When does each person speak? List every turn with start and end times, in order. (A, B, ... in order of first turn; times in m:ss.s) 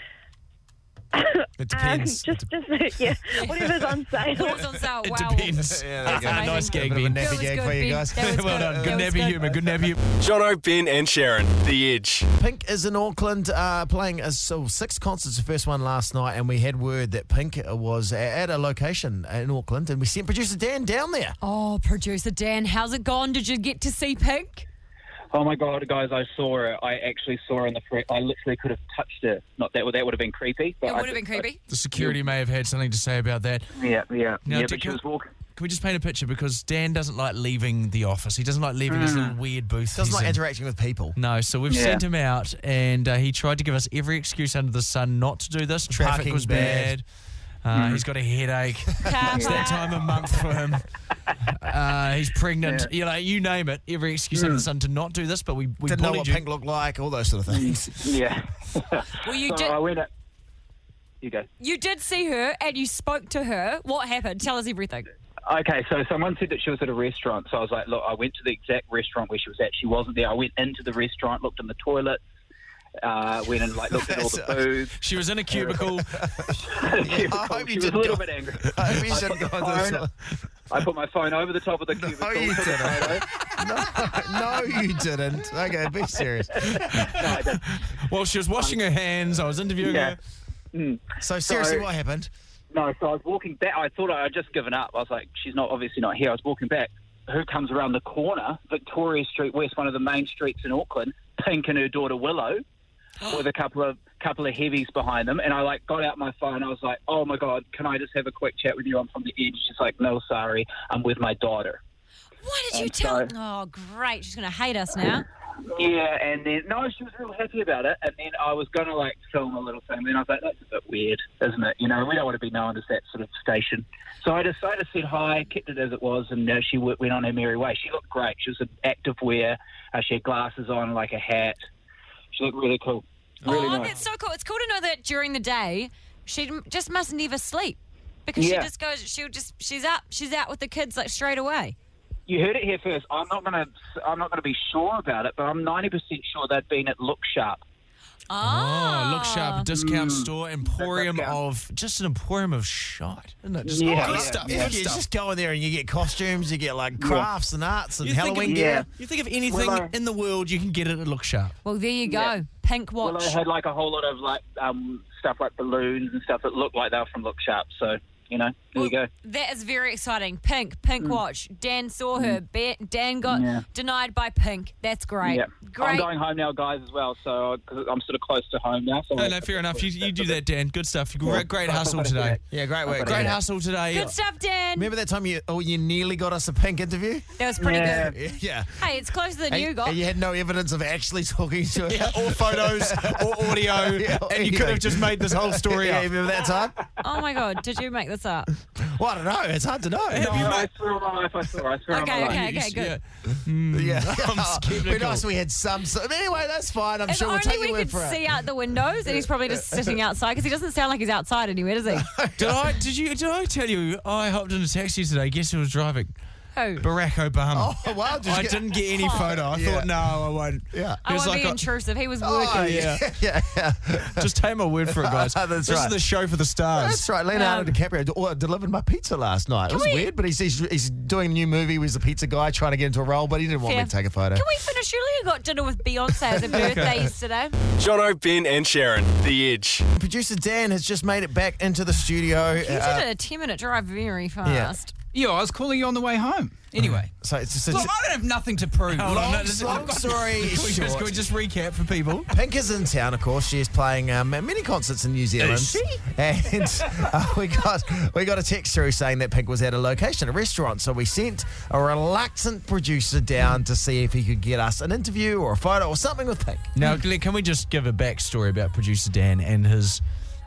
0:01.1-0:04.6 A
0:01.6-0:02.5 B
0:03.3-0:03.6 C
0:04.3-0:09.4 C
0:05.0-0:07.3 D
0:05.7-0:09.6 B
0:08.2-0:10.0 D
0:10.2-0:12.3 E
0:12.4-0:21.4 B
0:21.4-0:24.7 C
0:25.3-0:32.2 F
0:30.8-0:31.6 C
0:31.7-0:33.7 D
0:33.8-0:35.3 F
0:34.4-0:35.0 D
0:35.6-0:40.4 D
0:38.9-0:39.4 F
0:39.9-0:41.2 B
0:41.2-0:47.1 D
0:41.7-0:42.0 F
0:45.9-0:47.0 B
0:47.6-0:50.9 D
0:47.7-0:48.0 F
0:49.0-0:49.9 C
0:49.3-0:49.6 F
0:51.5-0:56.4 D
0:52.6-0:52.9 F
0:54.3-0:54.7 F
0:55.8-0:58.2 B
0:57.5-1:00.1 F
0:59.2-0:59.8 C
1:01.2-1:01.5 F
1:01.6-1:05.1 C
1:05.5-1:12.2 F
1:13.0-1:15.0 F
1:13.9-1:14.7 B
1:15.0-1:16.3 D
1:15.5-1:15.9 F
1:16.2-1:20.1 B
1:16.6-1:20.0 F
1:20.7-1:23.3 F
1:22.0-1:27.0 B
1:26.2-1:27.6 F
1:26.8-1:30.2 D
1:29.8-1:30.2 F
1:30.7-1:31.9 F
1:31.2-1:32.3 B
1:32.7-1:42.6 F
1:43.2-1:51.8 F
1:52.4-1:55.3 C
1:52.7-1:53.3 F
1:55.7-2:11.6 F
2:12.3-2:13.9 F
2:13.4-2:21.8 C
2:13.5-2:13.8 D
2:18.4-2:18.7 F
2:22.3-2:27.6 F
2:28.3-2:29.7 C
2:28.4-2:35.0 D
2:29.7-2:31.4 F
2:33.6-2:34.7 F
2:33.9-2:38.8 B
2:37.0-2:37.3 F
2:38.0-2:41.6 D
2:38.4-2:38.9 F
2:39.4-2:39.9 F
2:41.6-2:43.4 C
2:42.1-2:42.3 F
2:43.0-2:49.1 F
2:48.8-2:56.1 C
2:53.3-2:53.6 F
2:55.2-3:00.4 F
2:59.2-3:02.4 D
3:01.2-3:02.4 F
3:02.5-3:03.4 B
3:02.9-3:04.2 D
3:03.9-3:04.9 C
3:04.8-3:08.9 B
3:07.4-3:08.2 C
3:07.6-3:08.2 F
3:08.8-3:10.0 C
3:09.5-3:16.8 B
3:11.9-3:16.1 D
3:17.0-3:18.5 C
3:18.8-3:20.6 B
3:20.1-3:20.7 D
3:20.2-3:22.4 F
3:21.9-3:23.0 C
3:22.2-3:25.2 D
3:23.7-3:28.3 B
3:27.1-3:32.1 C
3:29.1-3:30.0 B
3:31.9-3:32.7 B
3:32.4-3:36.1 D
3:36.6-3:36.8 C
3:36.8-3:37.7 D
3:37.5-3:40.0 B
3:38.2-3:41.6 D
3:39.0-3:39.2 C
3:40.7-3:41.0 B
3:41.0-3:42.8 C
3:42.2-3:44.3 B
3:42.6-3:43.0 D
3:44.1-3:47.0 D
3:44.9-3:46.0 B
3:46.7-3:54.5 B
3:47.3-3:47.8 C
3:49.7-3:50.1 C
3:53.6-3:57.6 C
3:56.3-3:57.1 B
3:56.5-3:57.0 D
3:57.8-3:59.9 E
4:00.0-4:03.1 B
4:02.6-4:04.9 C
4:04.4-4:04.8 B
4:05.1-4:07.1 G
4:07.2-4:07.9 B
4:07.7-4:10.1 G
4:09.0-4:12.3 D
4:09.1-4:11.2 B
4:12.3-4:26.7 B
4:15.4-4:16.0 D
4:26.8-4:30.0 D